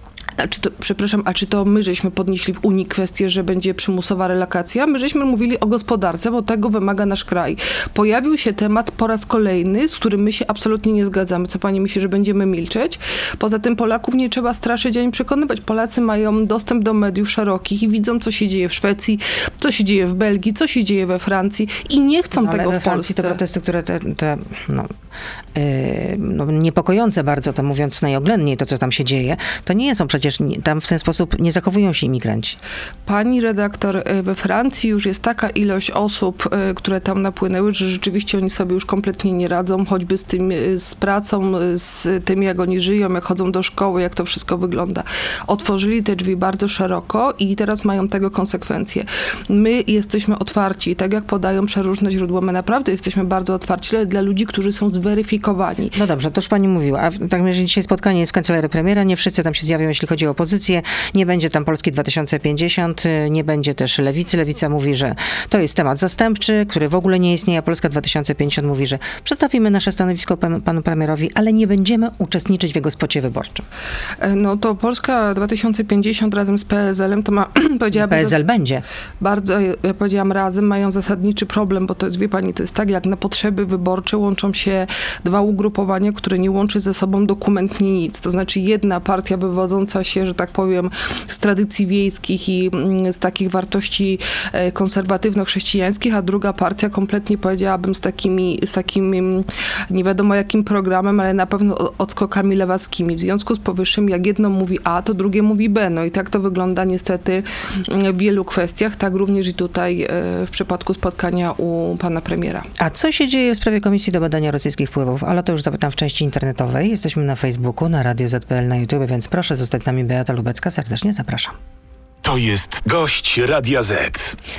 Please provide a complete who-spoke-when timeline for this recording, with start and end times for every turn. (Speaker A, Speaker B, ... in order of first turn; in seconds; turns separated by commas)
Speaker A: 0.4-23.4, Speaker B: 22.4-24.9, Speaker B: 25.6-32.6, Speaker A: 33.1-56.0, Speaker B: 56.0-73.6, Speaker A: 74.2-78.4, Speaker B: 78.0-78.8, Speaker A: 79.2-112.7, Speaker B: 112.8-121.5, Speaker C: 122.2-124.4